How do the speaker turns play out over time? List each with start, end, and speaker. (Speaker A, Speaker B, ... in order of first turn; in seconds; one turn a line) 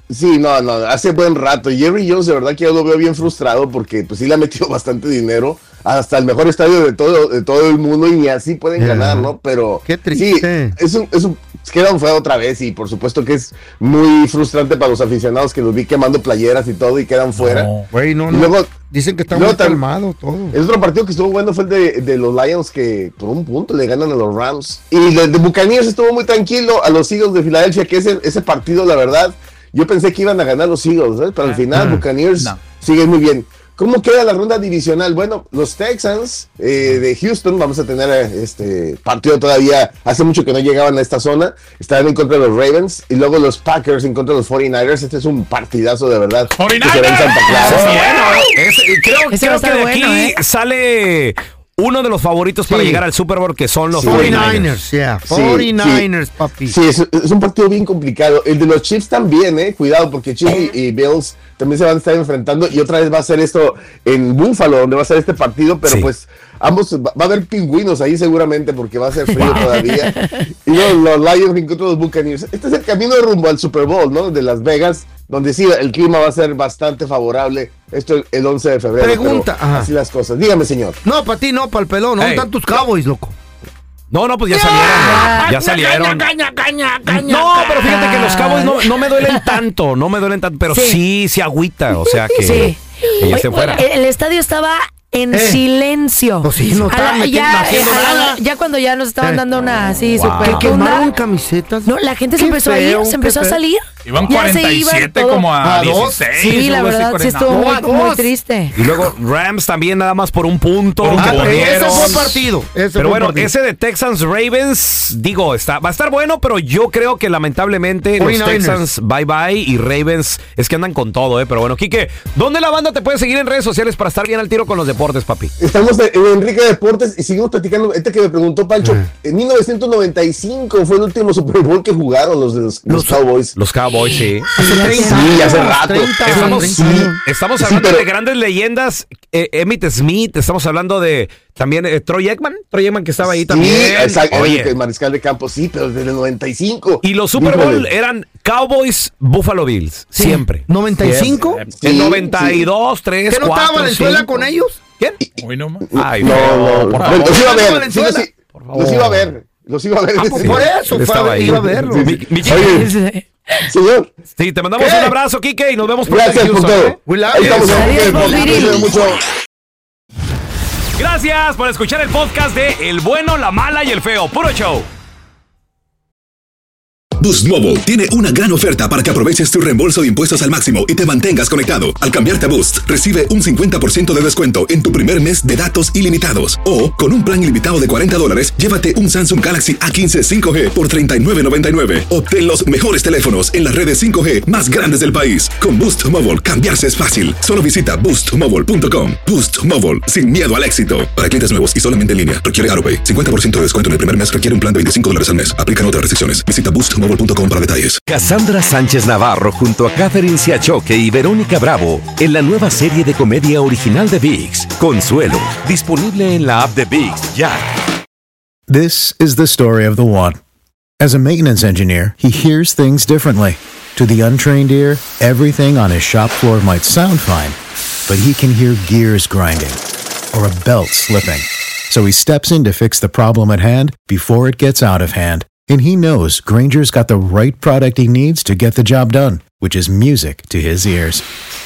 Speaker A: 0.1-17.7
Speaker B: 8.8-9.3
Speaker B: 9.8-10.8
Speaker C: 17.4-17.9
Speaker B: 17.9-20.6
Speaker A: 18.3-18.7
Speaker A: 19.3-19.8
Speaker A: 20.5-48.4
Speaker C: 46.5-48.4
Speaker D: 47.5-48.0
Speaker E: 47.7-54.8
Speaker D: 49.3-50.4
Speaker B: 52.7-53.0
Speaker A: 53.9-54.6
Speaker B: 54.0-56.8
Speaker A: 55.3-56.0
Speaker A: 56.7-70.1
Speaker D: 69.3-70.4
Speaker A: 70.6-81.0
Speaker B: 79.0-79.9
Speaker B: 81.0-83.3
Speaker E: 82.2-82.5
Speaker E: 84.1-86.2
Speaker B: 84.5-87.8
Speaker D: 84.8-85.5
Speaker E: 87.1-93.8
Speaker D: 87.8-89.6
Speaker D: 90.7-91.0
Speaker D: 92.3-101.1
Speaker B: 95.3-95.6
Speaker B: 96.4-98.4
Speaker E: 100.2-100.7
Speaker C: 100.2-100.5
Speaker B: 100.4-103.6
Speaker D: 101.8-105.5
Speaker C: 104.0-107.5
Speaker B: 105.6-106.2
Speaker D: 106.3-108.7
Speaker B: 107.5-108.3
Speaker E: 108.7-112.4
Speaker C: 111.0-112.3
Speaker B: 111.2-113.5
Speaker E: 113.0-125.5
Speaker B: 118.2-118.8
Speaker A: 125.6-133.5
Speaker B: 132.9-133.2
Speaker E: 133.6-135.7
Speaker B: 134.6-137.2
Speaker D: 134.6-135.3
Speaker A: 135.0-138.1
Speaker E: 136.2-144.7
Speaker A: 143.4-147.9
Speaker E: 147.0-154.3
Speaker B: 150.2-151.7
Speaker A: 151.8-152.7
Speaker B: 153.3-154.8
Speaker C: 155.4-157.3
Speaker A: 155.8-160.7
Speaker E: 155.9-157.4
Speaker B: 157.2-158.2
Speaker E: 158.7-159.3
Speaker B: 160.2-162.1
Speaker E: 160.4-162.8
Speaker A: 161.5-162.9
Speaker D: 162.4-163.6
Speaker A: 163.7-164.1
Speaker E: 164.4-168.8
Speaker B: 164.8-165.1
Speaker A: 166.1-169.2
Speaker B: 167.1-168.6
Speaker D: 167.6-168.9
Speaker E: 171.0-174.8
Speaker F: 177.2-208.0
Speaker G: 208.1-217.6
Speaker H: 218.7-220.4
Speaker H: 221.0-227.6
Speaker H: 228.1-229.8
Speaker H: 230.3-241.2